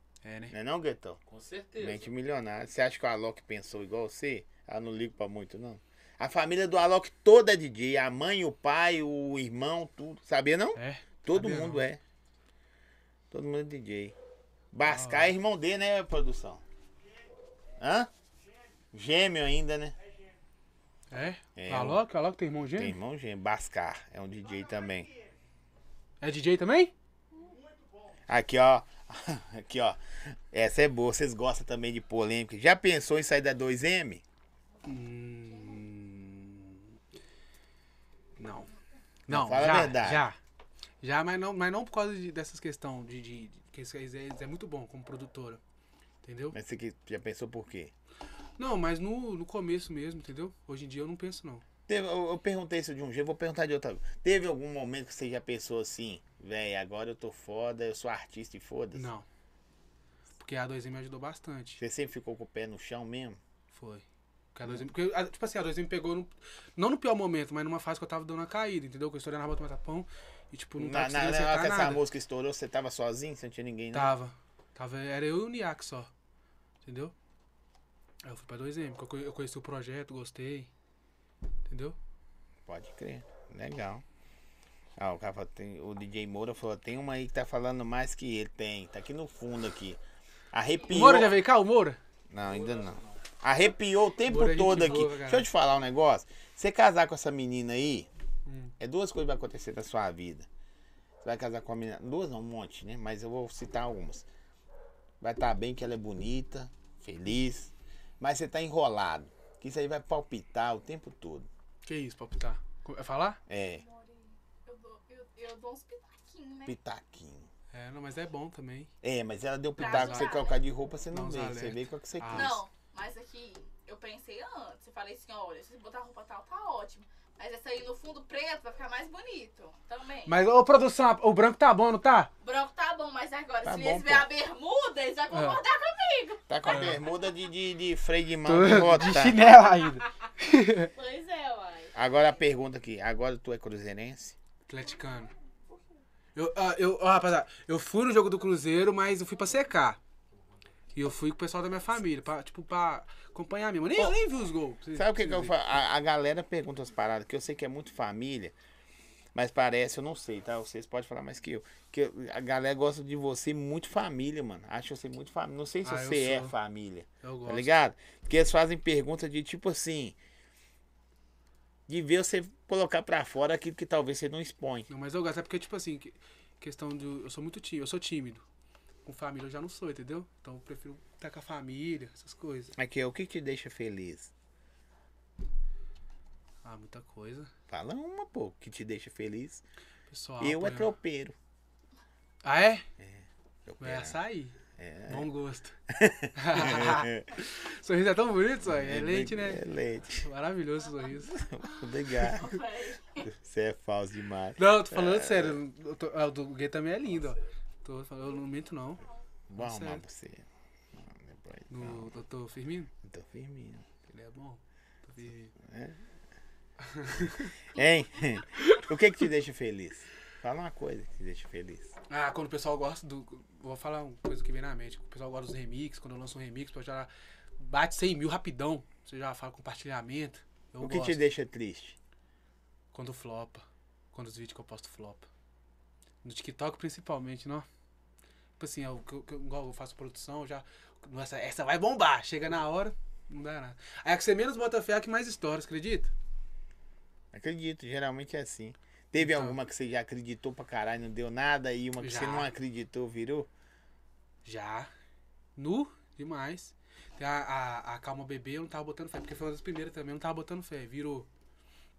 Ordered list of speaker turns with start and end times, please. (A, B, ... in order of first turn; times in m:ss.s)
0:00.2-0:00.5 A
0:00.5-0:01.2 B
0:01.3-0:02.1 C
0:01.8-0:12.0 B
0:10.7-0:11.8 A
0:13.3-0:14.1 B
0:14.7-0:16.6 B
0:14.8-0:15.3 A
0:17.8-0:18.1 B
0:18.9-0:20.0 B
0:21.1-0:23.0 A
0:21.6-0:22.0 B
0:22.7-0:25.1 B
0:26.2-0:26.9 A
0:28.3-0:34.2 B
0:34.8-0:36.8 A
0:38.4-0:38.7 A
0:39.3-0:40.2 B
0:39.3-0:40.4 A
0:41.0-0:45.6 A
0:46.2-0:46.6 A
0:46.5-0:47.9 B
0:48.6-0:51.6 A
0:51.9-0:59.1 B
0:58.9-0:59.2 A
1:00.4-1:01.8 A
1:01.8-1:03.4 B
1:03.7-1:12.0 A
1:10.8-1:14.1 B
1:13.9-1:16.1 A
1:16.8-1:17.1 A
1:18.2-1:20.7 A
1:21.7-1:22.0 A
1:22.6-1:24.0 B
1:25.0-1:30.0 B
1:30.5-1:31.4 B
1:30.9-1:32.0 A
1:32.3-1:38.1 B
1:32.4-1:33.2 C
1:34.2-1:35.5 A
1:38.4-1:38.7 A
1:38.8-1:40.5 B
1:41.2-1:44.3 B
1:45.2-1:51.5 B
1:51.8-1:53.4 A
1:53.5-1:53.8 B
1:53.8-1:56.8 D
1:56.6-1:57.5 B
1:57.7-1:58.9 A
1:59.0-2:02.6 B
1:59.8-2:00.6 D
1:59.8-2:00.2 A
2:01.1-2:02.6 A
2:02.3-2:10.4 D
2:10.2-2:12.3 A
2:12.4-2:17.4 D
2:13.6-2:14.3 B
2:15.3-2:15.6 A
2:16.5-2:19.5 B
2:16.7-2:17.0 A
2:18.4-2:20.9 A
2:20.9-2:21.9 D
2:21.9-2:24.4 B
2:24.7-2:25.3 A
2:26.3-2:30.0 A
2:30.3-2:30.7 C
2:30.9-2:35.5 A
2:34.9-2:38.5 B
2:39.3-2:50.2 B
2:45.8-2:46.5 A
2:47.2-2:47.7 A
2:51.9-2:54.9 B
2:54.9-2:58.4 A
2:59.0-3:02.7 A
3:02.7-3:04.3 B
3:06.6-3:07.5 A
3:07.7-3:09.6 B
3:10.1-3:10.9 A
3:10.4-3:11.3 B
3:12.4-3:12.8 A
3:13.0-3:14.2 B
3:13.8-3:14.6 A
3:14.7-3:15.3 B
3:15.1-3:15.8 A
3:15.9-3:17.3 B
3:16.3-3:19.6 A
3:18.6-3:20.2 B
3:20.2-3:21.4 A
3:21.3-3:22.6 B
3:22.2-3:23.2 D
3:23.2-3:25.6 B
3:24.6-3:29.0 A
3:27.0-3:27.5 C
3:29.5-3:32.2 B
3:29.6-3:30.0 A
3:31.7-3:32.9 A
3:33.0-3:33.8 B
3:34.1-3:35.5 A
3:35.6-3:36.0 B
3:36.8-3:37.5 A
3:37.6-3:41.9 B
3:38.6-3:38.8 A
3:42.1-3:51.2 A
3:50.8-3:52.0 B
3:52.9-3:55.3 A
3:56.2-3:57.7 A
3:58.6-4:06.1 A
4:07.3-4:13.5 B
4:09.2-4:09.6 A
4:12.0-4:12.5 A
4:14.4-4:14.9 A
4:15.6-4:21.3 A